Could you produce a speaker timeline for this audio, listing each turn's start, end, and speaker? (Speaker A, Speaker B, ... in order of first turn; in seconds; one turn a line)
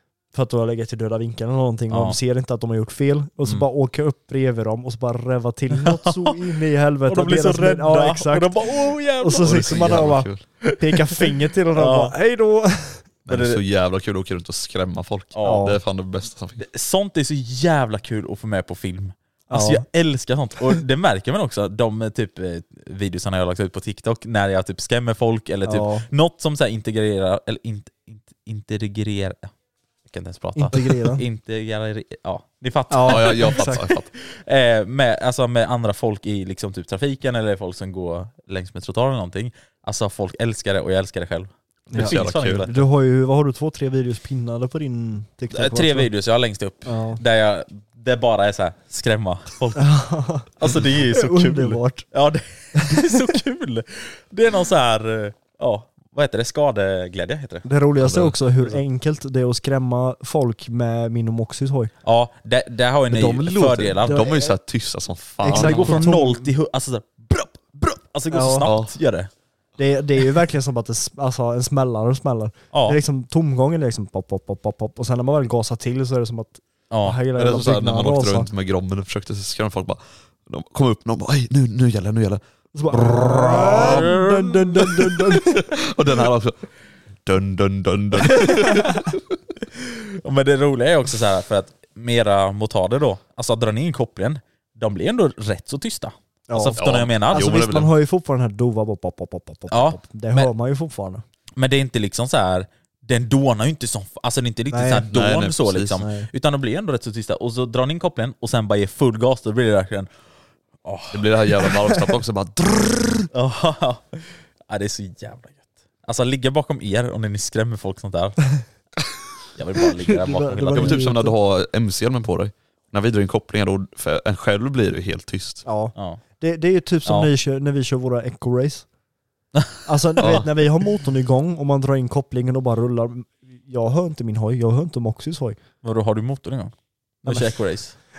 Speaker A: 0.3-8.6
Speaker B: 1.9-2.2
Speaker B: 5.8-6.3
Speaker B: 7.1-10.0
Speaker A: 9.2-13.0
Speaker C: 9.4-10.4
Speaker B: 11.0-12.1
Speaker C: 13.2-16.6
Speaker B: 13.3-13.6
Speaker B: 15.3-15.7
Speaker A: 15.4-15.8
Speaker B: 16.6-29.5
Speaker A: 19.5-19.8
Speaker A: 25.7-26.0
Speaker B: 30.1-42.8
Speaker A: 30.6-31.2
Speaker A: 32.9-33.8
Speaker C: 33.0-34.1
Speaker A: 41.9-46.1
Speaker C: 42.0-42.7
Speaker B: 45.5-49.9
Speaker A: 46.9-47.2
Speaker A: 49.8-52.0
Speaker B: 50.6-58.8
Speaker A: 52.8-53.2
Speaker A: 57.6-61.9
Speaker B: 62.0-64.3
Speaker A: 63.1-64.5
Speaker C: 63.5-66.0
Speaker A: 65.4-66.5
Speaker B: 65.5-69.3
Speaker A: 68.3-68.7
Speaker C: 68.6-68.9
Speaker A: 69.8-78.5
Speaker B: 72.7-73.0
Speaker B: 76.9-77.2
Speaker C: 77.3-84.1
Speaker A: 82.7-85.6
Speaker B: 83.7-84.8
Speaker C: 85.5-86.6
Speaker C: 87.2-89.2
Speaker A: 88.6-88.9
Speaker B: 89.8-97.6
Speaker A: 96.5-96.8
Speaker C: 96.8-97.9
Speaker A: 97.3-101.2
Speaker B: 99.7-100.5
Speaker B: 101.6-110.1
Speaker A: 104.7-105.1
Speaker C: 105.1-106.0
Speaker A: 106.0-106.3
Speaker B: 110.8-111.7
Speaker C: 111.1-113.3
Speaker B: 113.3-118.5
Speaker B: 119.5-121.0
Speaker A: 120.0-121.3
Speaker C: 120.7-125.6
Speaker A: 125.7-128.8
Speaker B: 126.0-126.2
Speaker B: 129.5-130.3
Speaker A: 129.8-135.6
Speaker C: 130.2-130.4
Speaker B: 135.8-137.9